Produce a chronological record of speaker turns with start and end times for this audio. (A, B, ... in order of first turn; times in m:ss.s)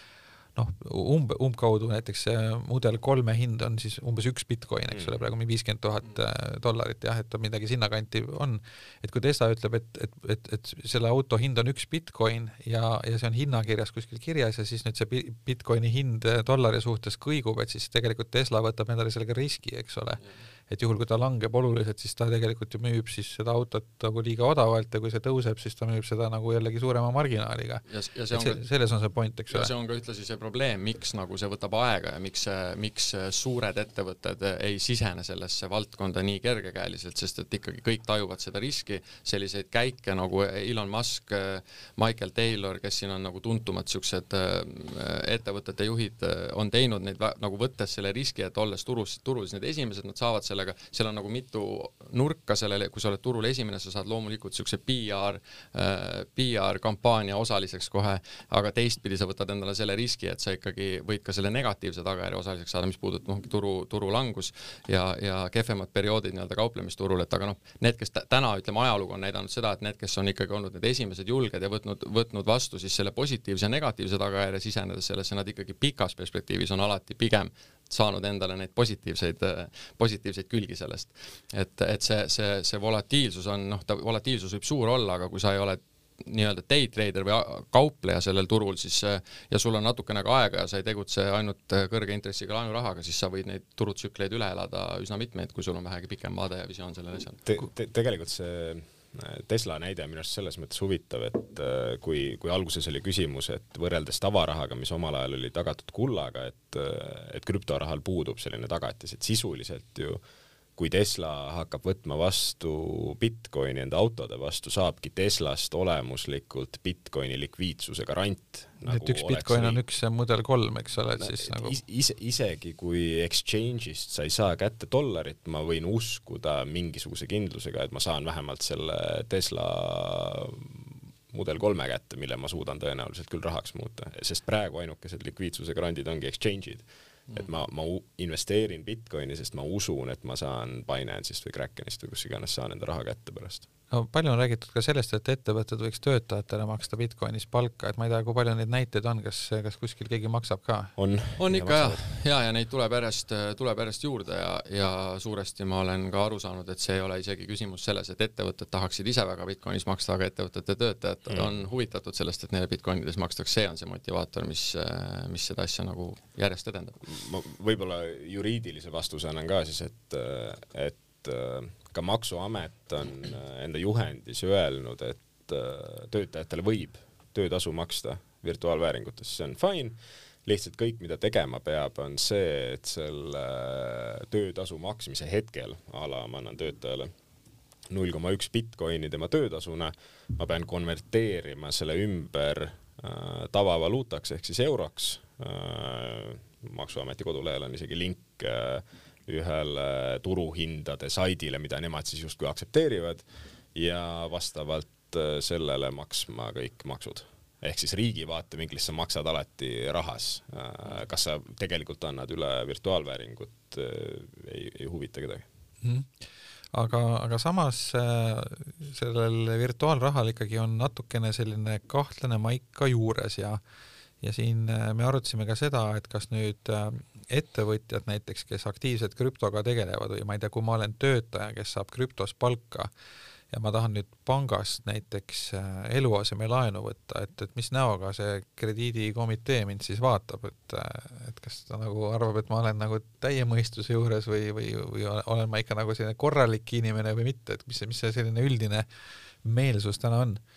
0:00.5-0:29.7 A
0:27.9-0:28.6 B
0:29.5-1:37.5 B
1:37.4-1:50.2 C
1:50.8-1:59.8 C
1:58.9-2:01.8 A
2:01.2-2:23.6 C
2:23.9-2:30.9 A
2:31.0-2:32.0 C
2:31.4-2:47.0 B
2:41.3-2:41.6 C
2:47.0-3:07.1 C
3:07.9-3:35.4 C
3:35.8-3:36.1 A
3:36.7-3:43.6 A
3:44.2-3:52.9 A
3:53.5-4:08.9 A
4:09.4-4:10.4 A